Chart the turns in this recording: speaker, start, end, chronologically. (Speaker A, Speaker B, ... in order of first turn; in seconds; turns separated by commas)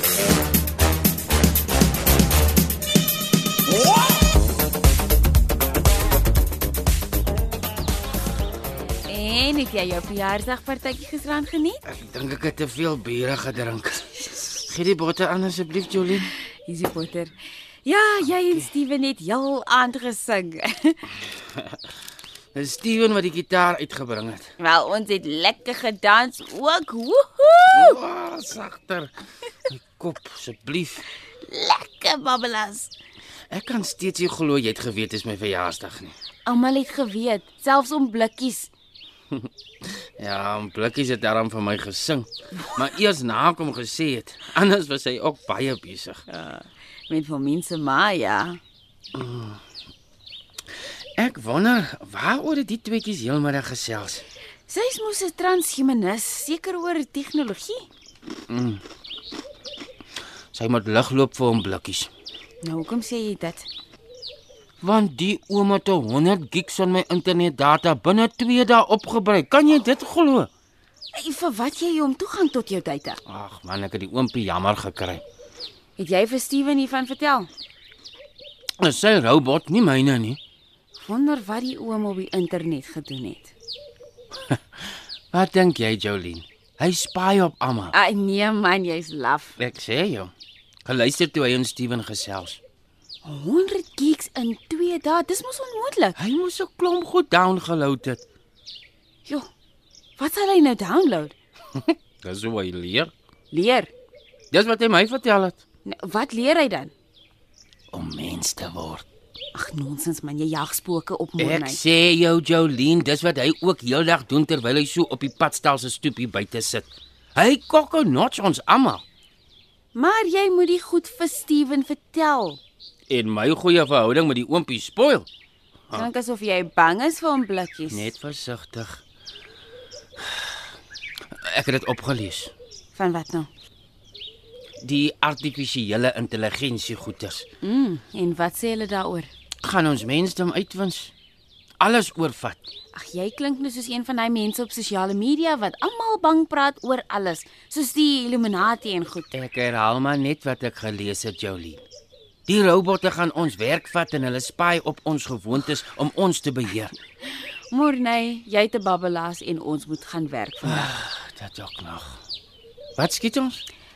Speaker A: 9.1-11.8, Speaker B: 11.9-16.3, Speaker A: 16.7-17.3, Speaker A: 17.9-21.0, Speaker B: 22.6-24.5, Speaker A: 24.6-28.0, Speaker B: 27.7-29.1, Speaker B: 29.7-31.0, Speaker A: 31.5-32.9, Speaker B: 33.5-36.1, Speaker A: 36.5-38.7, Speaker B: 40.2-46.2, Speaker A: 46.3-48.6, Speaker B: 49.1-49.6, Speaker B: 51.2-54.2, Speaker A: 54.7-57.9, Speaker B: 58.5-58.8, Speaker B: 60.5-62.1, Speaker A: 62.6-63.7, Speaker B: 64.8-70.5, Speaker A: 71.2-73.2, Speaker B: 73.3-75.2, Speaker A: 76.0-77.5, Speaker B: 78.8-80.4, Speaker A: 81.0-83.5, Speaker B: 85.3-87.9, Speaker A: 87.9-89.5, Speaker B: 89.6-90.3, Speaker B: 90.8-92.6, Speaker A: 93.2-96.2, Speaker B: 96.2-98.2, Speaker A: 100.2-101.3, Speaker B: 101.8-103.1, Speaker A: 103.5-103.9, Speaker B: 104.5-105.6, Speaker A: 105.8-106.9, Speaker B: 107.9-109.1, Speaker A: 109.5-111.8, Speaker B: 111.4-119.0, Speaker A: 120.0-122.6, Speaker B: 123.1-125.3, Speaker A: 125.9-128.1, Speaker B: 127.9-129.0, Speaker B: 130.2-130.7, Speaker B: 131.5-132.5, Speaker A: 133.0-133.5, Speaker B: 134.8-137.5, Speaker A: 137.6-139.3, Speaker B: 139.6-141.1, Speaker B: 141.8-142.6, Speaker A: 142.9-149.3, Speaker B: 149.3-151.8, Speaker B: 152.5-156.9, Speaker A: 157.7-160.9, Speaker B: 160.6-162.2, Speaker B: 163.0-163.6